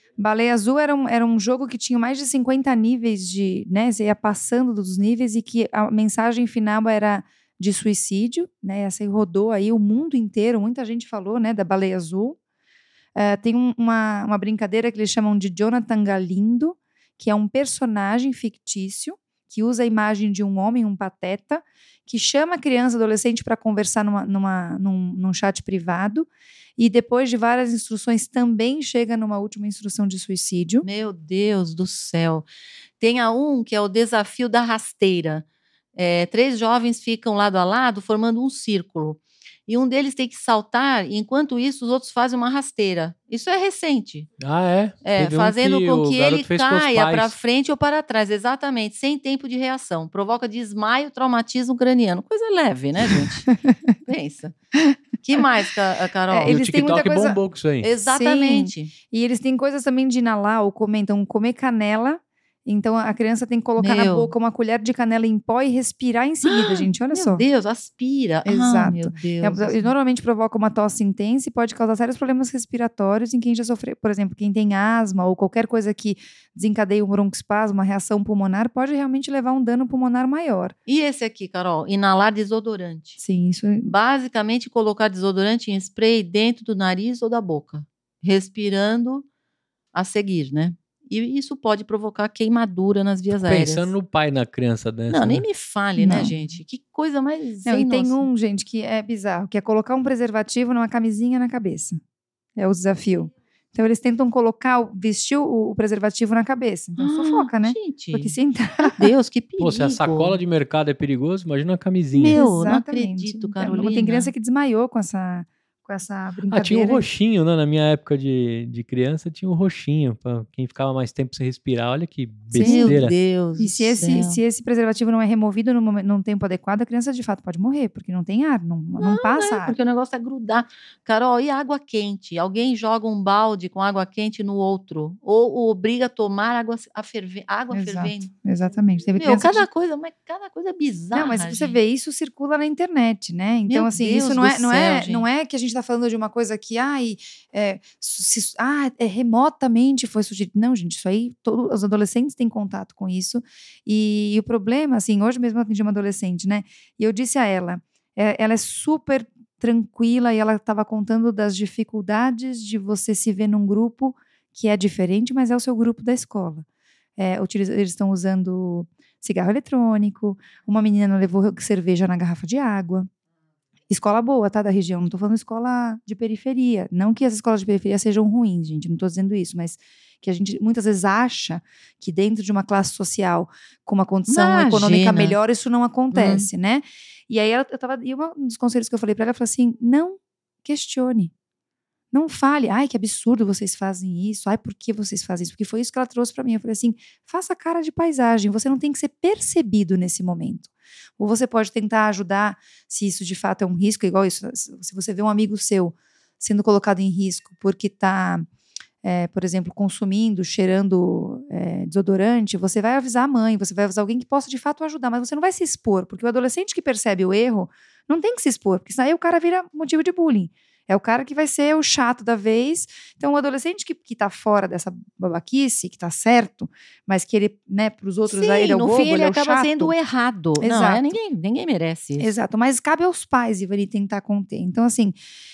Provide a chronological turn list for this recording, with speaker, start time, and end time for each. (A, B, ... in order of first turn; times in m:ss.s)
0:00.2-0:12.4 A
0:13.2-0:30.8 A
0:30.8-0:32.4 B
0:33.0-0:44.3 B
0:44.4-0:47.3 C
0:45.0-0:53.5 B
0:54.0-0:54.5 B
0:55.2-0:56.6 B
0:56.3-0:57.4 A
0:56.5-0:57.9 C
0:57.8-0:58.9 B
0:58.0-1:07.4 A
1:03.8-1:04.3 B
1:06.4-1:09.9 B
1:08.4-1:20.7 A
1:20.9-1:23.2 B
1:23.2-1:23.9 A
1:23.8-1:29.2 B
1:29.9-1:33.9 B
1:33.4-1:35.4 C
1:35.1-1:38.3 B
1:36.0-1:36.3 A
1:37.6-1:42.0 A
1:42.6-1:49.1 A
1:47.0-1:50.4 B
1:49.6-1:52.4 C
1:52.2-1:57.0 A
1:52.3-1:54.3 B
1:56.5-2:03.1 C
2:02.5-2:03.0 A
2:02.6-2:04.4 B
2:03.6-2:09.8 A
2:09.0-2:18.3 B
2:17.7-2:19.6 A
2:19.2-2:21.8 B
2:21.1-2:46.6 A
2:23.6-2:25.2 B
2:47.2-2:53.1 A
2:53.9-3:11.3 A
3:04.3-3:05.4 B
3:06.1-3:06.5 B
3:12.1-3:28.4 A
3:29.0-3:49.9 A
3:48.3-3:52.3 B
3:50.6-3:51.1 A
3:52.2-3:55.2 A